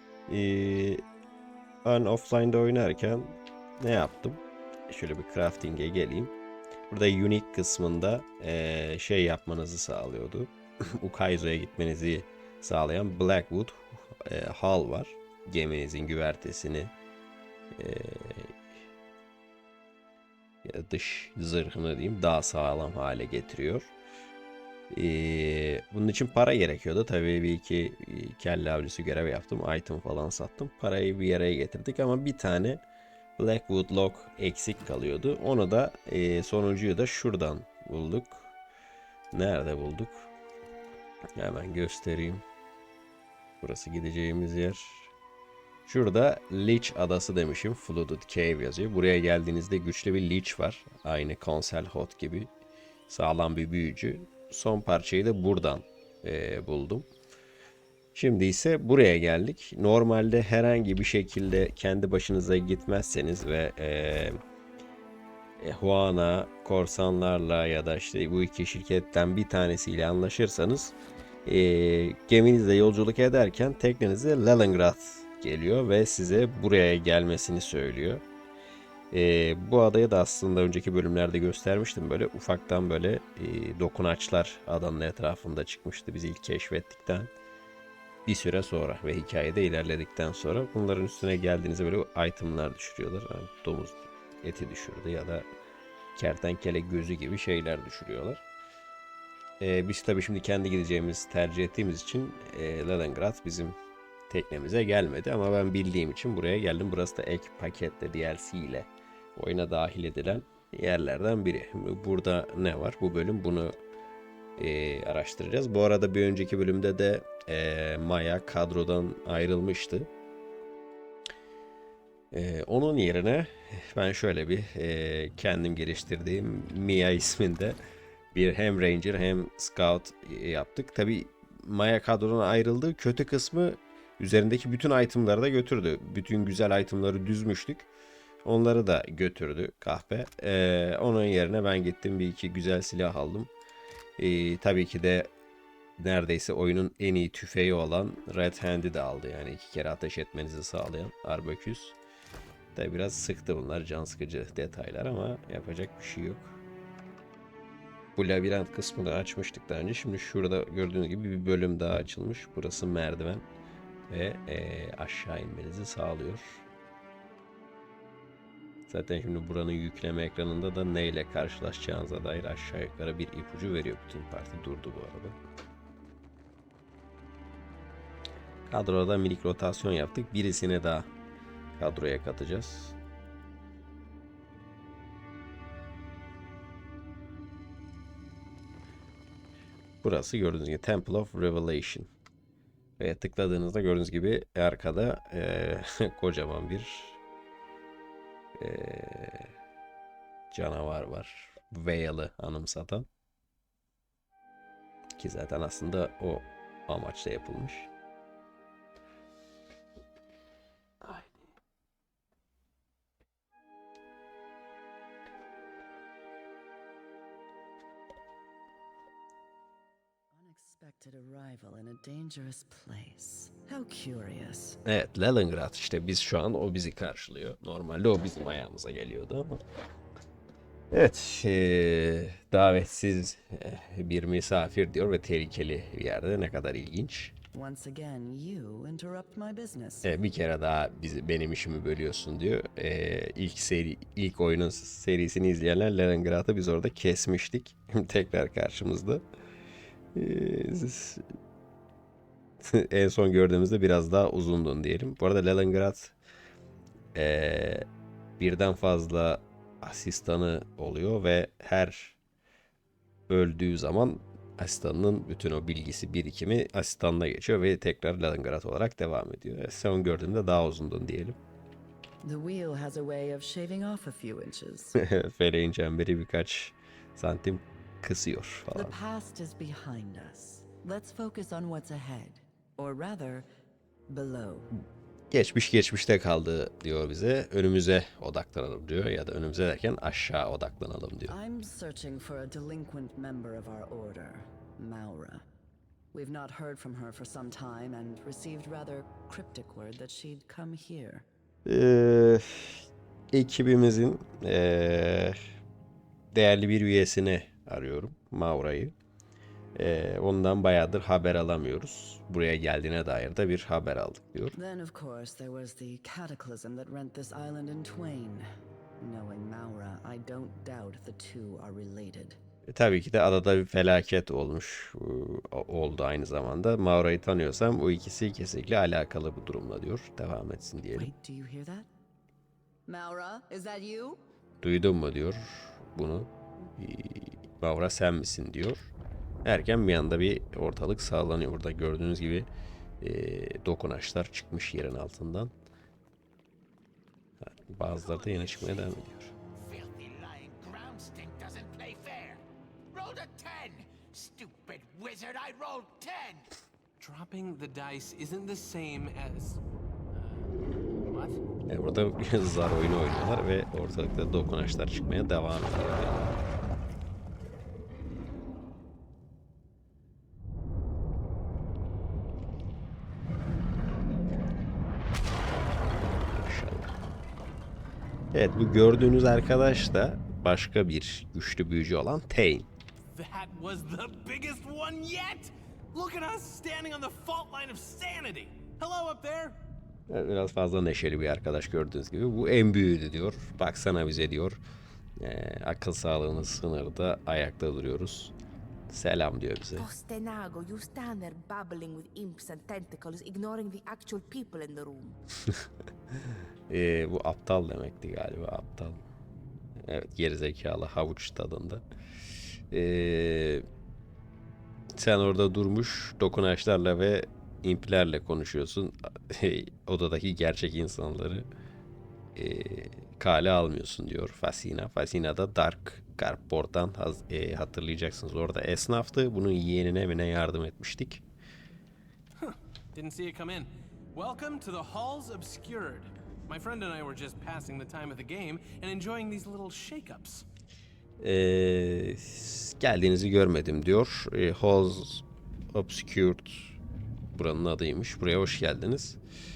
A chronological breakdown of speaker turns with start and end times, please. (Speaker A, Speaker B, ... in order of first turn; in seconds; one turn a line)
Speaker A: 0.3-1.0
Speaker A: 1.8-6.3
Speaker A: 6.9-16.9
Speaker A: 17.8-18.6
Speaker A: 20.6-23.9
Speaker A: 24.9-32.8
Speaker A: 33.4-38.5
Speaker A: 39.3-40.3
Speaker A: 41.4-42.4
Speaker A: 43.6-45.1
Speaker A: 45.9-52.5
Speaker A: 53.1-57.1
Speaker A: 58.1-64.4
Speaker A: 65.6-70.9
Speaker A: 71.5-78.2
Speaker A: 79.1-87.3
Speaker A: 88.3-95.5
Speaker A: 96.2-98.4
Speaker A: 99.6-103.8
Speaker A: 104.3-113.7
Speaker A: 114.6-120.1
Speaker A: 122.3-127.8
Speaker A: 128.3-137.9
Speaker A: 138.4-143.5
Speaker A: 144.2-145.3
Speaker A: 146.0-152.0
Speaker A: 152.8-156.6
Speaker A: 158.2-163.4
Speaker A: 164.1-166.6
Speaker A: 168.9-175.4
Speaker A: 178.7-181.1
Speaker A: 181.8-183.0
Speaker A: 190.0-192.1
Speaker A: 193.0-197.2
Speaker A: 198.6-199.5
Speaker A: 200.5-203.1
Speaker A: 205.2-207.9
Speaker A: 211.0-211.3
Speaker B: 220.3-224.8
Speaker A: 224.8-229.6
Speaker A: 230.9-237.3
Speaker B: 237.5-240.1
Speaker A: 240.0-249.2
Speaker A: 250.2-251.2
Speaker A: 252.6-256.1
Speaker A: 257.1-257.9
Speaker A: 258.4-262.2
Speaker A: 263.3-271.4
Speaker B: 272.2-275.0
Speaker A: 275.0-278.9
Speaker B: 278.7-283.5
Speaker B: 284.1-284.7
Speaker A: 285.3-291.4
Speaker B: 291.3-295.4
Speaker B: 296.1-301.3
Speaker A: 301.7-305.4
Speaker A: 306.3-308.9
Speaker A: 309.8-314.6
Speaker B: 314.6-318.5
Speaker B: 319.0-322.4
Speaker A: 322.7-331.1
Speaker B: 330.9-331.9
Speaker B: 332.9-334.2
Speaker A: 334.6-338.9
Speaker A: 339.4-342.5
Speaker A: 343.0-345.5
Speaker A: 347.4-349.3
Speaker C: 349.6-352.4
Speaker C: 352.9-356.4
Speaker D: 357.0-359.6
Speaker D: 360.1-361.4
Speaker A: 361.7-366.4
Speaker A: 376.2-376.9
Speaker A: 378.3-382.7
Speaker D: 383.1-389.6
Speaker A: 390.1-394.6
Speaker A: 395.2-398.3
Speaker A: 398.9-399.9
Speaker E: 399.8-405.2
Speaker A: 406.7-409.0
Speaker A: 409.8-411.8
Speaker A: 412.7-413.7
Speaker A: 415.0-421.5
Speaker A: 422.4-431.2
Speaker D: 432.4-440.5
Speaker A: 441.2-446.8
Speaker A: 447.3-449.2